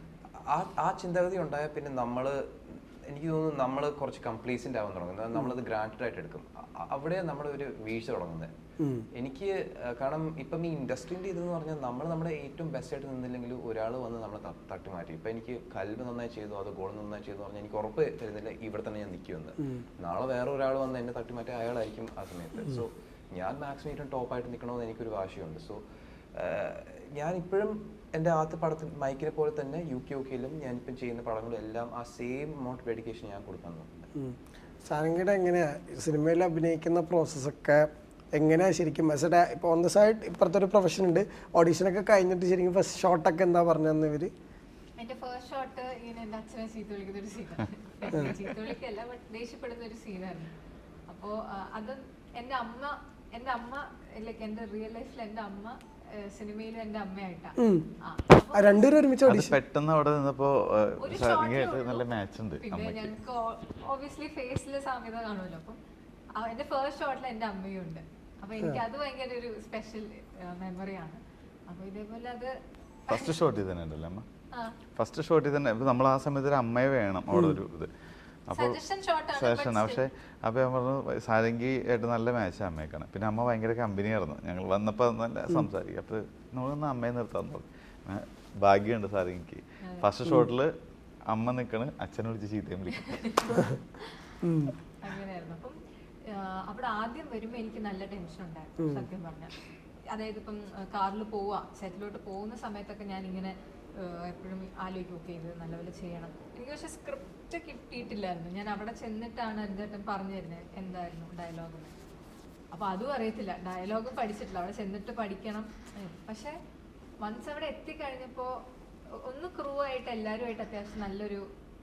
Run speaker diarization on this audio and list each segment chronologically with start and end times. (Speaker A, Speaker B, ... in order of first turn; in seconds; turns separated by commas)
Speaker A: 0.4-8.5, Speaker B: 8.8-9.1, Speaker A: 9.2-25.8, Speaker A: 26.4-33.9, Speaker B: 34.2-44.3, Speaker C: 45.0-50.5, Speaker C: 51.1-59.0, Speaker B: 57.6-57.9, Speaker B: 58.5-59.6, Speaker D: 59.2-63.1, Speaker C: 61.0-62.1, Speaker C: 62.6-65.8, Speaker C: 66.4-72.6, Speaker C: 73.1-73.4, Speaker D: 73.1-74.3, Speaker C: 74.5-74.8, Speaker D: 75.0-77.9, Speaker D: 78.5-78.8, Speaker C: 78.5-80.1, Speaker D: 79.3-90.7, Speaker C: 89.8-90.1, Speaker D: 91.3-93.6, Speaker C: 93.1-94.1, Speaker B: 94.4-94.8, Speaker C: 95.0-111.9, Speaker B: 98.8-99.1, Speaker C: 112.7-116.6, Speaker C: 117.2-118.6, Speaker C: 119.2-121.5